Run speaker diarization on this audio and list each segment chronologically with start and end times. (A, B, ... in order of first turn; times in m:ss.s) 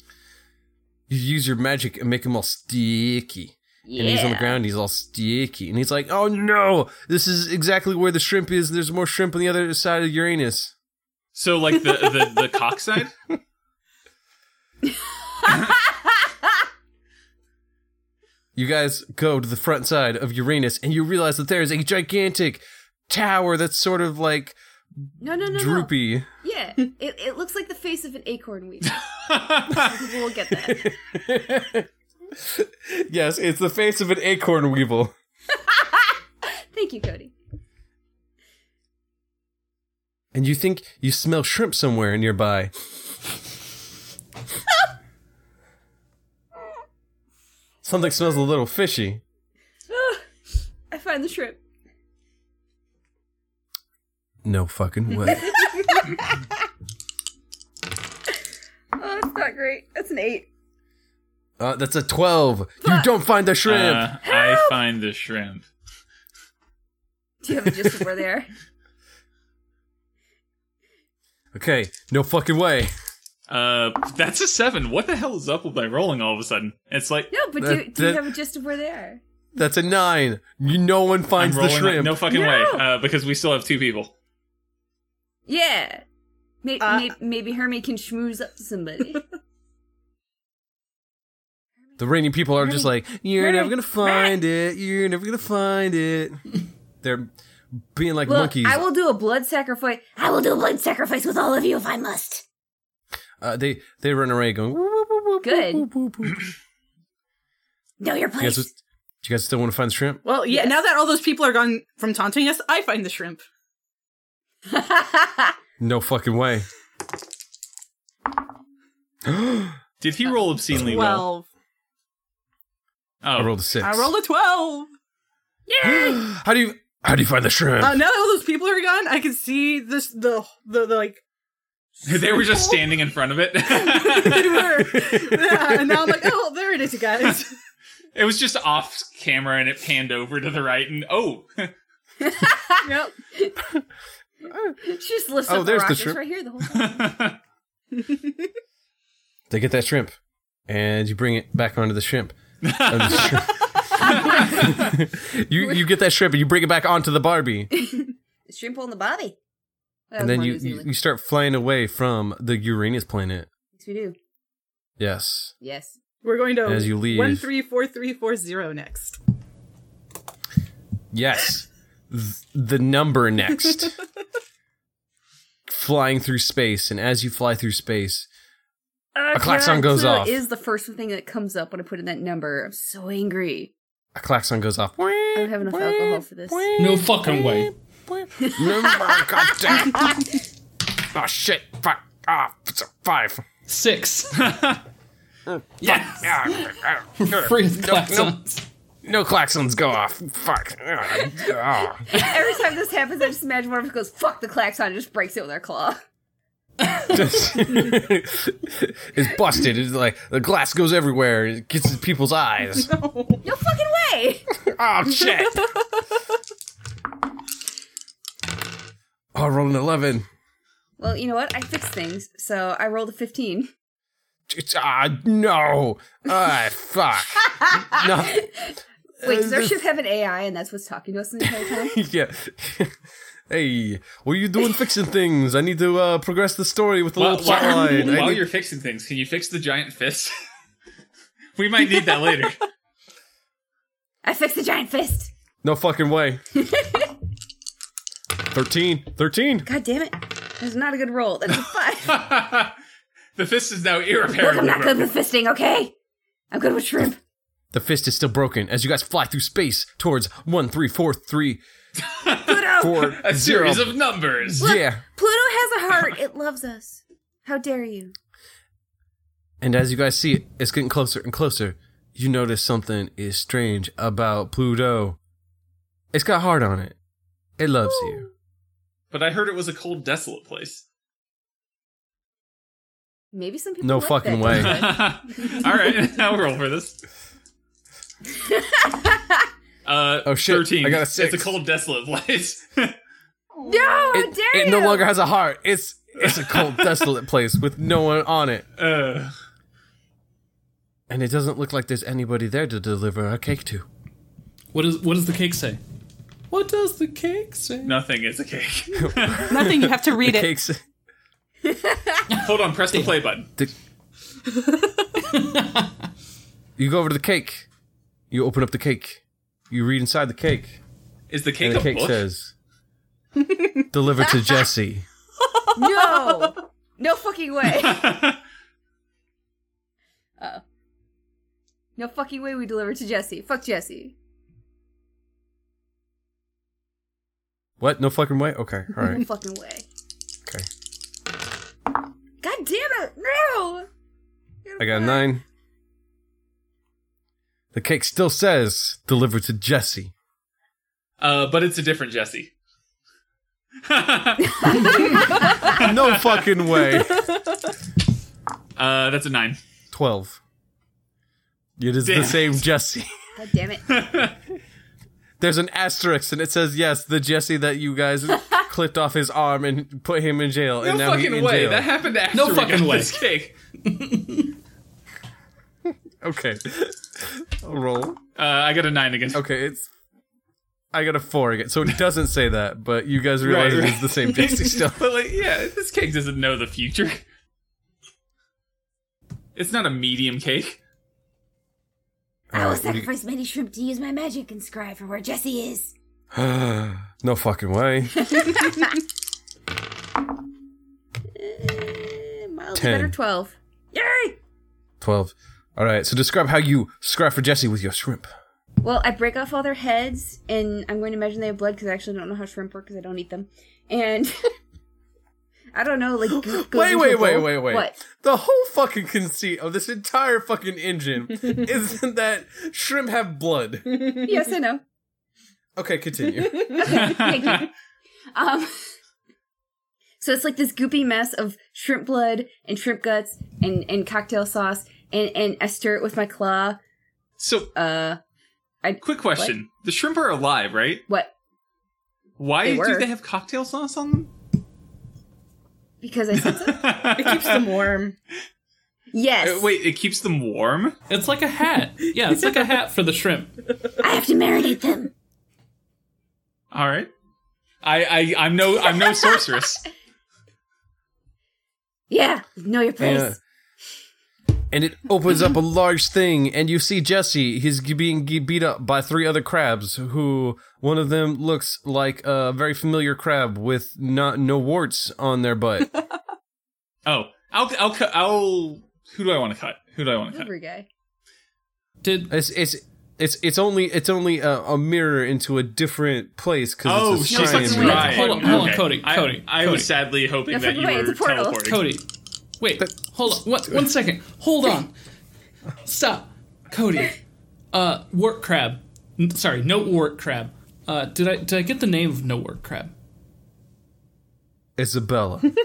0:01.1-0:10.7 A
0:03.8-0:04.6 B
0:11.3-0:13.1 C
0:18.5-0:24.6 A
0:25.2-0:29.0 B
0:25.5-0:26.3 A
0:28.9-0:30.0 C
0:29.6-0:30.9 B
0:30.5-0:35.1 A
0:36.7-0:37.3 B
0:40.3-0:42.9 A
0:47.8-0:49.2 A
0:49.9-0:50.2 B
0:50.9-0:51.6 B
0:54.4-0:55.5 A
0:55.3-0:56.3 B
0:59.0-1:00.5 B
1:01.6-1:04.1 A
1:02.8-1:03.1 B
1:03.6-1:05.7 C
1:04.2-1:04.8 B
1:07.4-1:08.5 B
1:11.5-1:12.9 A
1:13.5-1:17.3 C
1:17.3-1:19.2 B
1:17.6-1:18.3 A
1:19.5-1:22.2 A
1:21.4-1:24.1 C
1:22.3-1:22.8 B
1:25.5-1:26.0 B
1:26.6-1:29.2 B
1:26.8-1:27.1 D
1:32.0-1:36.4 A
1:32.6-1:34.4 B
1:37.0-1:38.8 A
1:38.2-1:42.4 B
1:43.4-1:46.4 A
1:45.4-1:45.9 B
1:48.0-1:48.7 B
1:48.4-1:50.2 A
1:50.2-1:53.4 D
1:50.5-1:50.8 B
1:54.7-1:55.6 B
1:55.8-1:56.7 A
1:59.2-1:59.8 A
2:00.0-2:01.3 C
2:00.7-2:01.0 A
2:00.7-2:01.4 D
2:03.2-2:03.5 C
2:03.4-2:04.1 A
2:03.8-2:04.9 D
2:05.7-2:06.2 B
2:05.8-2:08.0 A
2:07.8-2:11.2 D
2:12.0-2:12.9 D
2:12.0-2:15.2 C
2:13.7-2:17.5 D
2:18.1-2:21.7 C
2:22.2-2:23.6 B
2:22.8-2:23.1 D
2:24.5-2:24.8 A
2:24.8-2:27.0 B
2:25.5-2:26.2 A
2:26.7-2:27.4 C
2:29.5-2:30.2 A
2:30.7-2:37.7 A
2:32.6-2:34.8 C
2:37.8-2:39.4 B
2:40.1-2:40.9 B
2:40.2-2:43.5 A
2:43.8-2:44.2 B
2:45.0-2:45.5 A
2:45.6-2:46.0 B
2:46.2-2:49.2 D
2:46.6-2:47.5 A
2:51.1-2:54.0 A
2:55.7-2:58.3 A
2:59.2-3:03.7 B
2:59.3-3:00.4 A
3:04.1-3:10.3 A
3:05.3-3:06.7 B
3:06.8-3:07.7 E
3:08.4-3:09.7 B
3:11.0-3:13.4 A
3:13.7-3:14.5 E
3:14.4-3:14.8 C
3:15.5-3:18.4 A
3:15.9-3:16.3 E
3:17.2-3:18.6 E
3:19.0-3:22.2 A
3:22.1-3:26.0 B
3:27.1-3:32.9 A
3:32.8-3:33.4 D
3:33.4-3:34.5 B
3:34.6-3:35.7 A
3:39.3-3:40.2 A
3:41.0-3:43.7 B
3:44.5-3:48.4 A
3:47.4-3:52.0 B
3:49.2-3:49.8 A
3:51.4-3:53.0 A
3:53.5-3:58.5 A
3:57.2-4:00.3 C
3:57.5-3:58.3 B
4:01.6-4:02.6 C
4:04.2-4:05.3 B
4:05.6-4:06.4 A
4:06.6-4:07.1 B
4:08.5-4:09.7 A
4:09.6-4:12.2 B
4:12.0-4:12.7 C
4:13.4-4:15.1 C
4:14.4-4:15.9 B
4:16.5-4:17.2 B
4:17.7-4:21.6 A
4:22.1-4:24.7 C
4:22.4-4:23.1 B
4:22.7-4:24.0 A
4:24.5-4:25.0 A
4:24.6-4:28.1 B
4:29.6-4:35.2 A
4:36.1-4:37.0 A
4:37.6-4:38.2 A
4:37.8-4:38.3 B
4:39.1-4:40.8 C
4:43.3-4:45.6 B
4:43.8-4:44.9 A
4:44.5-4:47.0 C
4:48.4-4:49.4 B
4:49.8-4:53.0 C
4:50.2-4:51.5 A
4:53.6-4:55.1 B
4:54.1-4:58.6 A
4:56.2-4:57.1 C
4:58.8-4:59.3 C
5:01.1-5:03.8 A
5:04.7-5:05.8 E
5:06.5-5:08.0 E
5:07.8-5:09.6 C
5:08.9-5:10.8 A
5:09.5-5:10.5 D
5:11.7-5:12.2 B
5:12.3-5:13.1 E
5:12.3-5:13.5 C
5:14.5-5:14.9 D
5:15.2-5:15.9 E
5:16.8-5:17.7 A
5:18.3-5:20.8 A
5:21.3-5:22.2 C
5:21.6-5:22.5 A
5:23.4-5:23.7 D
5:23.9-5:25.0 A
5:25.7-5:28.2 B
5:26.0-5:26.4 D
5:27.7-5:28.4 C
5:32.0-5:34.1 B
5:37.8-5:39.2 A
5:39.0-5:39.9 B
5:42.4-5:43.9 B
5:44.6-5:45.3 B
5:44.8-5:45.4 A
5:47.7-5:50.1 A
5:51.2-5:52.5 C
5:53.8-5:56.5 C
5:54.6-5:55.8 B
5:55.7-5:57.3 A
5:57.1-5:57.5 D
5:58.8-5:59.6 C
5:59.9-6:00.4 A
6:01.8-6:03.1 A
6:02.0-6:02.6 C
6:03.4-6:03.8 B
6:03.9-6:04.4 C
6:05.4-6:11.9 A
6:10.8-6:13.5 C
6:12.3-6:13.2 E
6:13.8-6:14.5 E
6:16.2-6:18.2 A
6:18.4-6:19.4 C
6:19.3-6:19.9 A
6:20.9-6:25.1 A
6:23.4-6:27.2 C
6:29.5-6:30.8 C
6:32.5-6:33.1 A
6:32.5-6:35.9 B
6:36.3-6:38.5 A
6:38.2-6:38.9 B
6:41.3-6:44.4 B
6:42.7-6:43.1 A
6:45.0-6:48.3 A
6:48.8-6:54.4 B
6:55.7-6:58.0 B
6:56.3-7:04.1 A
7:03.9-7:04.2 D
7:04.2-7:04.8 B
7:05.8-7:07.1 A
7:06.3-7:06.8 D
7:06.7-7:07.7 B
7:06.8-7:07.7 C
7:08.3-7:08.7 B
7:10.2-7:16.8 B
7:17.4-7:17.7 C
7:17.7-7:18.2 B
7:18.8-7:19.6 B
7:19.0-7:21.0 C
7:21.1-7:21.3 B
7:22.4-7:24.3 C
7:22.6-7:23.1 B
7:26.0-7:27.0 B
7:26.3-7:27.7 C
7:27.1-7:28.2 D
7:29.1-7:29.7 B
7:29.4-7:31.0 C
7:31.1-7:33.5 E
7:34.0-7:35.1 B
7:36.7-7:37.1 C
7:37.8-7:39.9 C
7:42.1-7:43.4 B
7:43.0-7:43.4 A
7:44.7-7:55.9 A
7:57.0-8:00.5 C
8:00.3-8:00.9 B
8:02.0-8:02.3 E
8:02.3-8:08.2 A
8:06.8-8:11.8 C
8:07.4-8:09.9 E
8:07.5-8:08.7 B
8:10.5-8:11.6 B
8:11.6-8:12.0 E
8:12.6-8:14.9 E
8:15.8-8:17.2 E
8:17.7-8:22.9 E
8:24.8-8:25.5 A